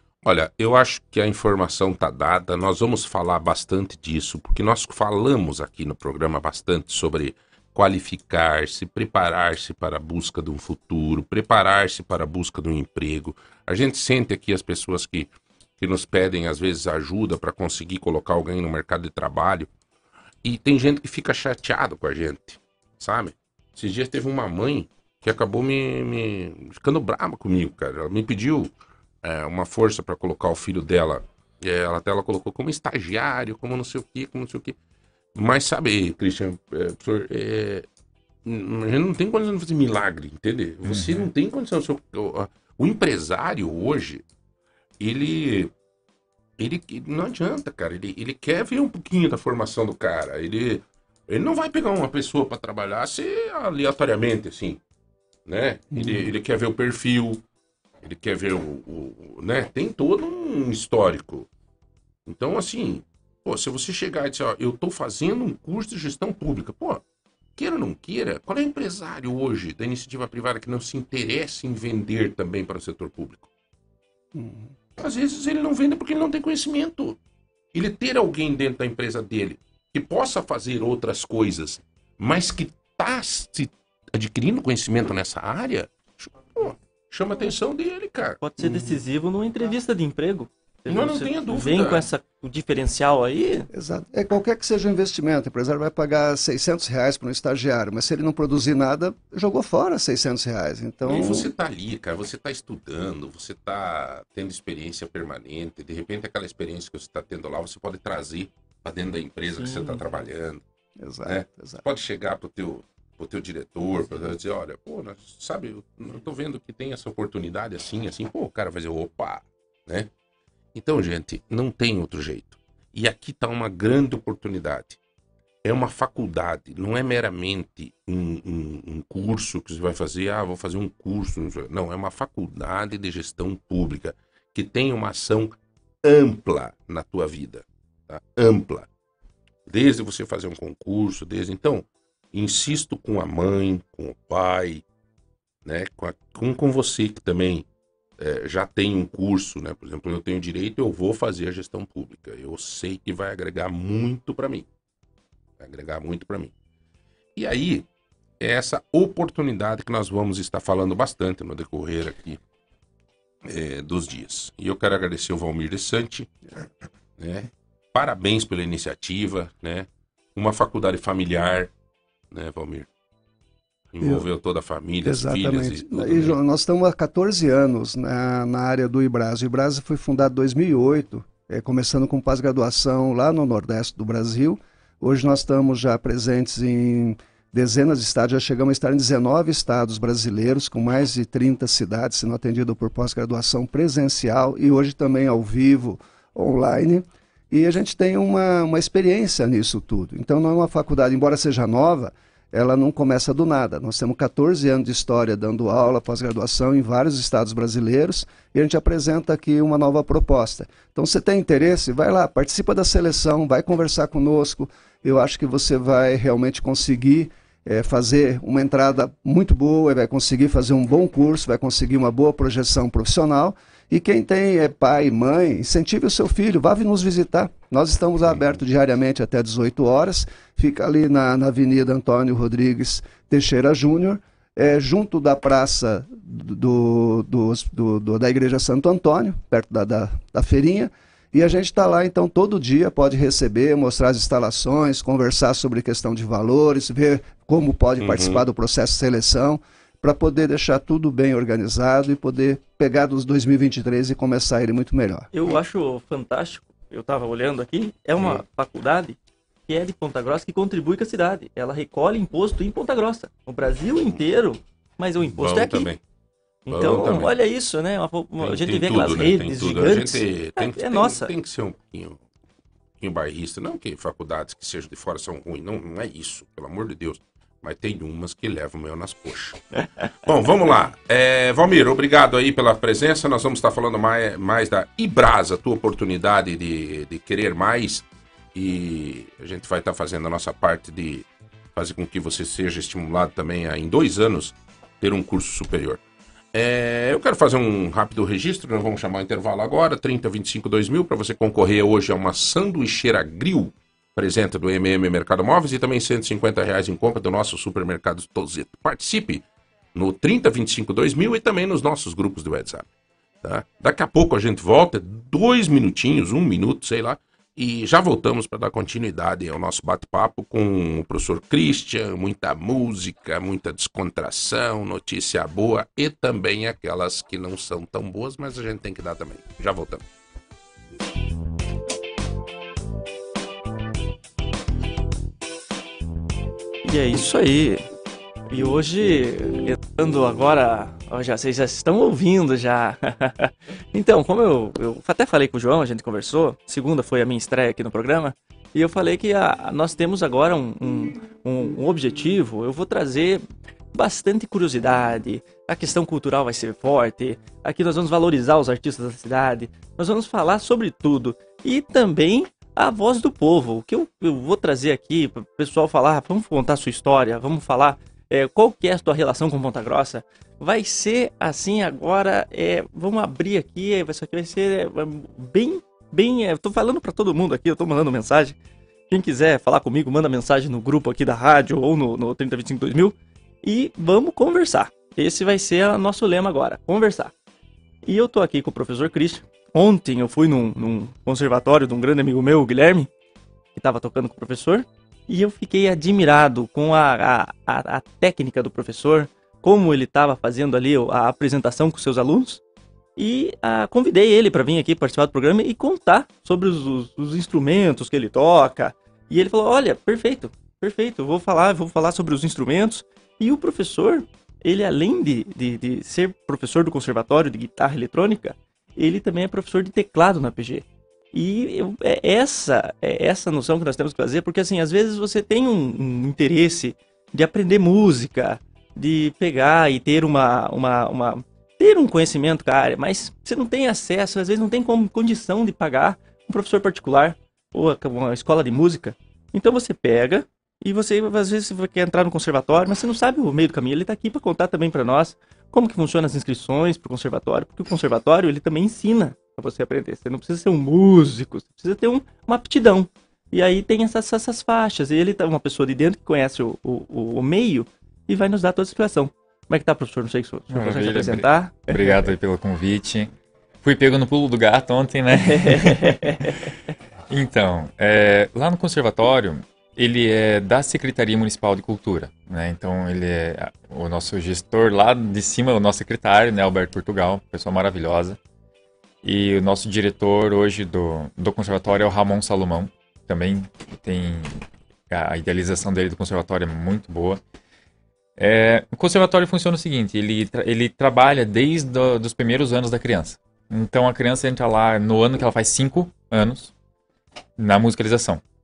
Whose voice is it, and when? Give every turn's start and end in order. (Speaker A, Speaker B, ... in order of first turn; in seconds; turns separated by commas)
Speaker A: 0.2-19.7, Speaker A: 20.4-28.7, Speaker A: 29.2-34.8, Speaker A: 35.3-37.9, Speaker A: 38.4-44.2, Speaker B: 40.9-41.2, Speaker A: 45.0-45.7, Speaker A: 46.6-54.8, Speaker A: 55.5-57.4, Speaker C: 55.9-56.3, Speaker A: 58.0-61.5, Speaker A: 62.2-67.0, Speaker A: 67.6-73.5, Speaker C: 74.3-74.7, Speaker A: 75.0-77.2, Speaker A: 77.7-88.4, Speaker D: 88.4-93.7, Speaker C: 88.6-89.0, Speaker A: 90.9-92.1, Speaker C: 93.7-101.5, Speaker A: 101.0-110.6, Speaker D: 109.5-110.0, Speaker C: 111.0-111.8, Speaker A: 111.2-120.1, Speaker A: 120.7-125.0, Speaker A: 125.6-138.9, Speaker A: 139.7-144.8, Speaker A: 145.6-147.7, Speaker A: 148.2-154.7, Speaker A: 155.6-156.5, Speaker A: 157.3-157.9, Speaker A: 158.4-162.4, Speaker A: 163.4-166.3, Speaker A: 167.2-171.7, Speaker A: 172.3-172.9, Speaker A: 173.9-176.4, Speaker C: 175.0-255.3, Speaker A: 248.0-248.4, Speaker D: 255.3-265.9, Speaker A: 258.2-258.4, Speaker A: 265.3-266.0, Speaker D: 266.7-271.3, Speaker A: 266.7-267.3, Speaker A: 268.4-272.2, Speaker A: 273.0-296.0, Speaker A: 296.5-309.4, Speaker A: 309.9-312.9, Speaker A: 313.4-330.0, Speaker D: 336.8-337.8, Speaker D: 338.5-378.6, Speaker D: 379.1-387.3, Speaker D: 388.0-393.1, Speaker D: 393.7-402.6, Speaker D: 403.2-462.2, Speaker B: 460.7-463.3, Speaker B: 463.8-466.5, Speaker D: 465.4-466.6, Speaker B: 467.3-478.4, Speaker B: 479.2-487.4, Speaker B: 488.4-496.7, Speaker B: 497.6-498.4